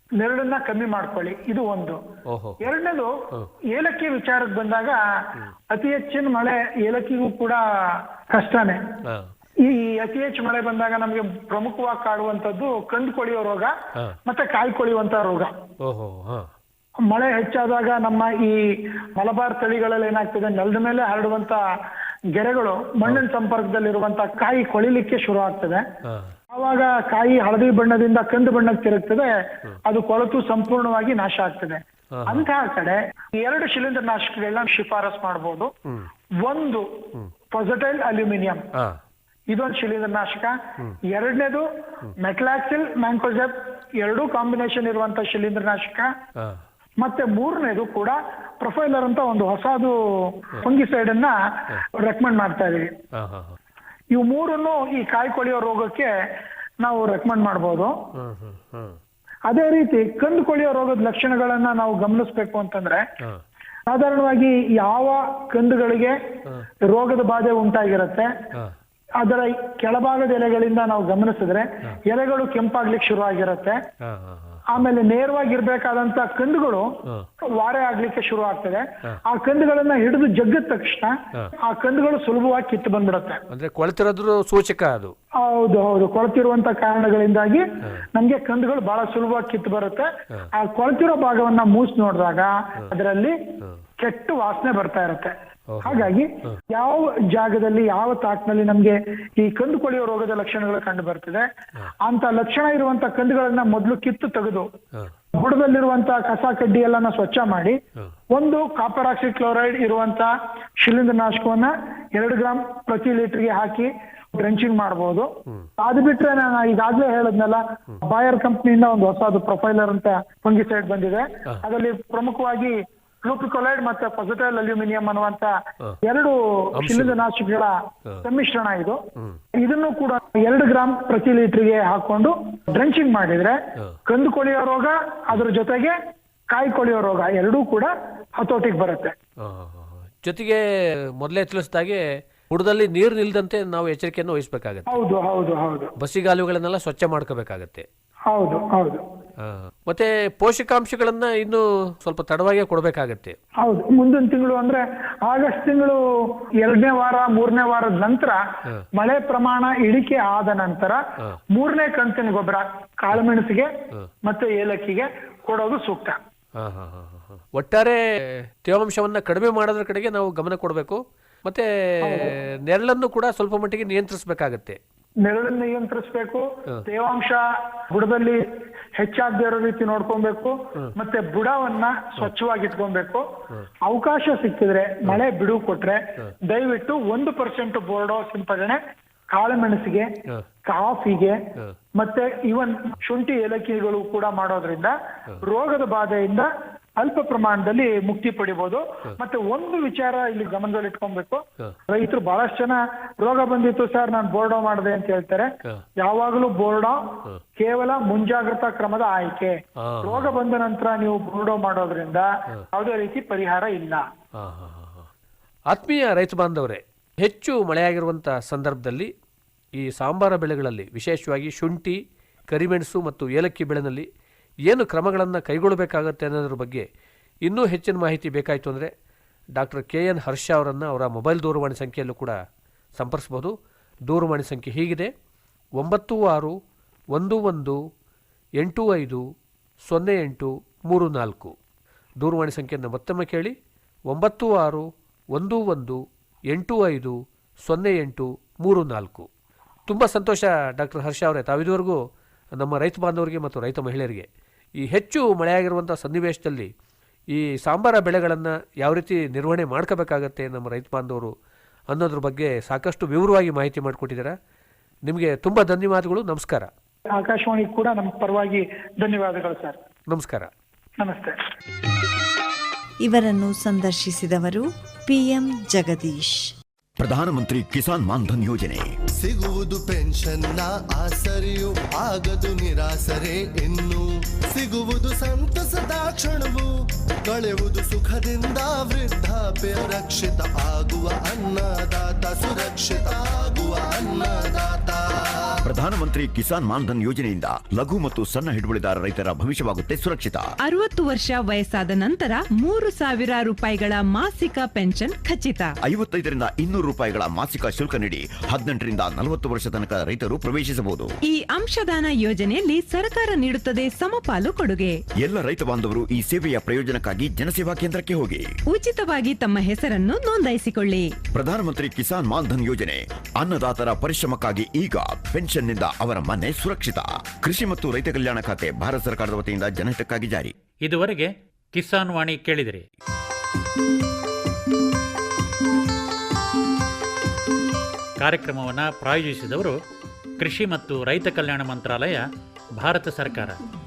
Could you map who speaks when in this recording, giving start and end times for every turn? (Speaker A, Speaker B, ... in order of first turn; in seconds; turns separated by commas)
Speaker A: 0.2-2.0, Speaker B: 2.3-2.7, Speaker A: 2.6-3.1, Speaker A: 3.7-5.0, Speaker A: 5.7-8.8, Speaker A: 9.6-13.7, Speaker A: 14.3-15.5, Speaker B: 15.8-16.5, Speaker A: 17.1-21.6, Speaker A: 22.3-25.8, Speaker B: 26.1-26.4, Speaker A: 26.5-35.7, Speaker B: 32.1-32.5, Speaker A: 36.4-36.9, Speaker A: 37.5-38.7, Speaker A: 39.5-40.6, Speaker A: 41.1-41.7, Speaker A: 42.2-46.1, Speaker B: 46.4-46.6, Speaker A: 47.0-53.0, Speaker B: 53.1-53.6, Speaker A: 54.1-56.1, Speaker A: 56.8-57.9, Speaker B: 58.2-59.0, Speaker A: 59.5-63.0, Speaker A: 63.9-66.2, Speaker A: 66.9-68.3, Speaker A: 69.2-73.8, Speaker B: 74.0-74.8, Speaker A: 74.7-76.9, Speaker A: 77.5-83.4, Speaker B: 83.5-85.1, Speaker A: 85.4-93.4, Speaker A: 94.0-95.3, Speaker B: 95.7-96.6, Speaker A: 95.8-101.5, Speaker A: 102.1-104.7, Speaker A: 105.3-107.8, Speaker A: 108.3-129.0, Speaker B: 126.8-127.2, Speaker A: 129.6-136.0, Speaker A: 136.5-139.2, Speaker B: 139.4-140.7, Speaker B: 141.2-145.0, Speaker A: 144.9-145.9, Speaker B: 146.0-147.9, Speaker A: 148.3-149.0, Speaker B: 149.4-153.4, Speaker A: 153.6-158.4, Speaker A: 158.9-161.0, Speaker A: 161.5-163.7, Speaker A: 164.2-166.2, Speaker B: 166.6-174.8, Speaker A: 172.0-172.3, Speaker A: 175.2-178.5, Speaker A: 179.0-183.2, Speaker A: 183.8-188.8, Speaker A: 189.3-190.1, Speaker A: 190.7-191.4, Speaker A: 192.0-214.1, Speaker B: 209.8-210.4, Speaker B: 214.4-215.1, Speaker B: 215.7-219.1, Speaker B: 219.8-222.0, Speaker B: 222.5-224.1, Speaker B: 224.7-226.9, Speaker B: 227.5-228.9, Speaker B: 229.6-232.4, Speaker B: 233.0-233.5, Speaker B: 234.1-235.1, Speaker B: 235.8-236.6, Speaker B: 237.1-237.8, Speaker B: 238.6-239.2, Speaker B: 239.9-241.6, Speaker B: 242.2-243.6, Speaker B: 244.1-249.3, Speaker B: 249.9-252.0, Speaker B: 252.6-254.3, Speaker B: 254.8-256.7, Speaker B: 257.3-261.3, Speaker B: 261.9-264.4, Speaker B: 265.1-266.7, Speaker A: 267.1-269.8, Speaker B: 270.1-270.5, Speaker A: 271.0-271.4, Speaker C: 273.0-276.5, Speaker D: 277.0-278.9, Speaker E: 279.2-286.7, Speaker E: 287.3-295.5, Speaker D: 295.7-300.4, Speaker F: 300.6-305.8, Speaker D: 305.9-311.1, Speaker F: 311.2-315.0, Speaker D: 315.2-318.5, Speaker F: 318.7-321.2, Speaker D: 321.3-330.5, Speaker G: 330.9-332.9, Speaker G: 338.2-339.8, Speaker G: 340.4-342.2, Speaker G: 342.8-343.6